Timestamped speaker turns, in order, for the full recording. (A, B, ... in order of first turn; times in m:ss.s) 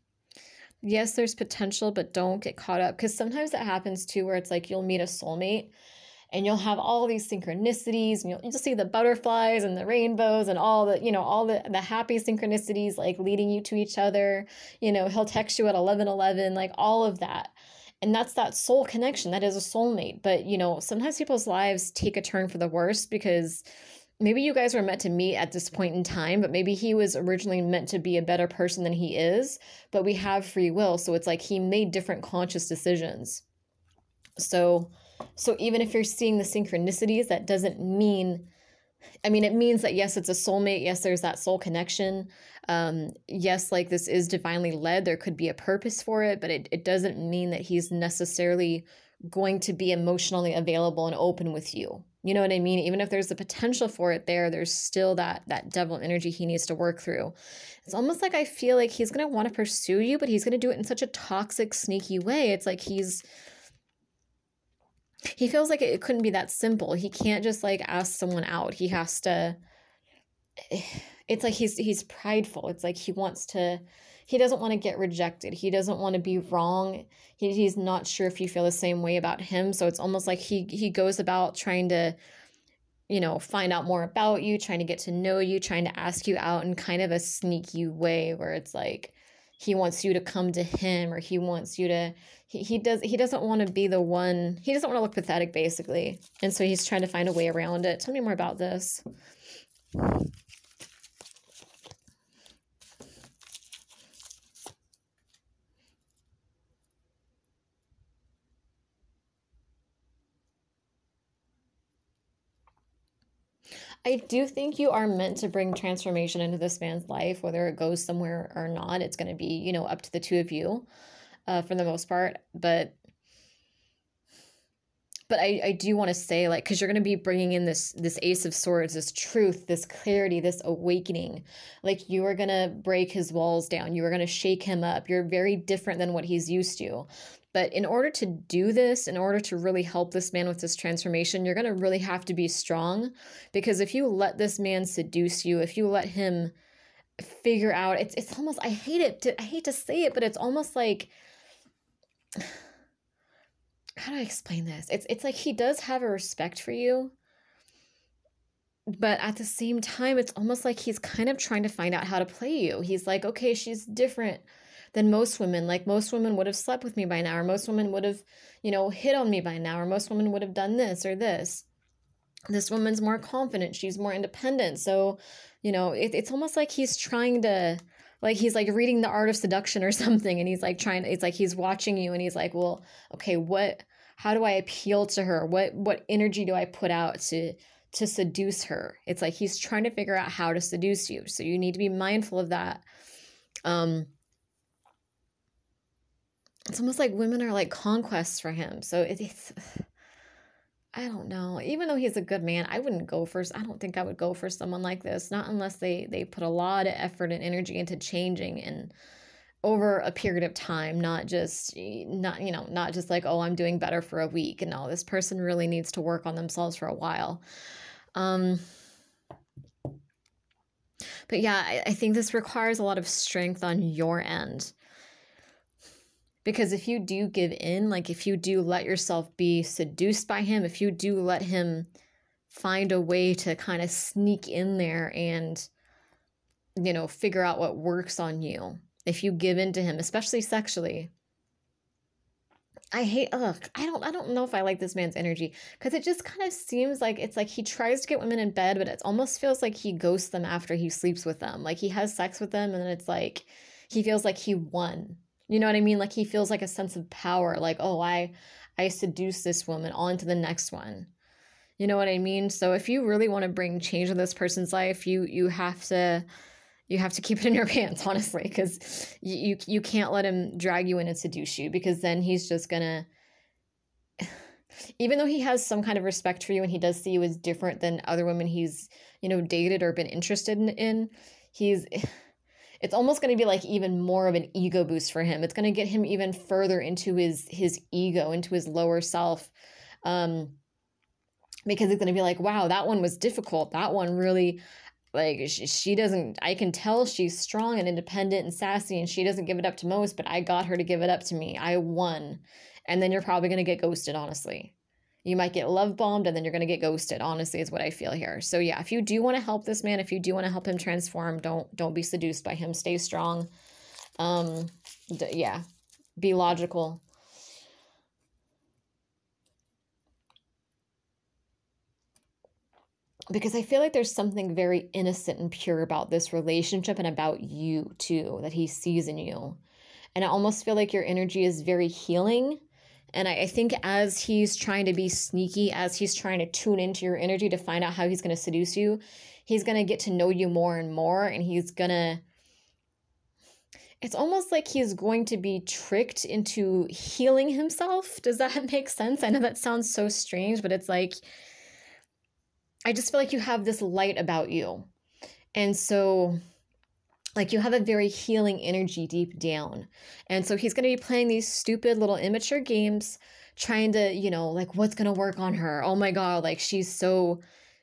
0:00.8-0:05.7 A
0:06.3-0:23.6 A
0:24.2-0:33.4 A
0:34.4-0:38.5 A
0:39.2-1:03.2 A
1:05.3-1:09.6 A
1:10.7-1:22.2 A
1:23.1-1:39.0 A
1:54.0-2:00.9 A
2:01.5-2:03.0 A
2:05.3-2:26.5 A
2:27.2-2:31.1 A
2:34.0-2:37.1 A
2:38.9-2:51.6 A
2:52.5-3:12.8 A
3:13.7-3:14.1 A
3:16.7-3:19.9 A
3:20.9-3:28.9 A
3:29.6-3:37.4 A
3:38.2-3:38.6 A
3:41.3-3:44.7 A
3:46.4-3:51.9 A
3:52.5-3:55.7 A
3:56.8-4:01.1 A
4:02.9-4:21.1 A
4:21.8-4:26.3 A
4:26.9-4:33.1 A
4:35.0-4:42.1 A
4:42.8-4:49.5 A
4:50.0-4:50.6 A
4:51.7-4:54.6 A
4:55.1-5:04.7 A
5:05.2-5:13.5 A
5:14.2-5:15.6 A
5:16.2-5:17.0 A
5:23.3-5:29.6 A
5:30.2-5:32.6 A
5:33.1-5:42.2 A
5:44.0-5:51.2 A
5:52.9-5:54.9 A
5:55.6-5:56.4 A
5:57.4-6:07.4 A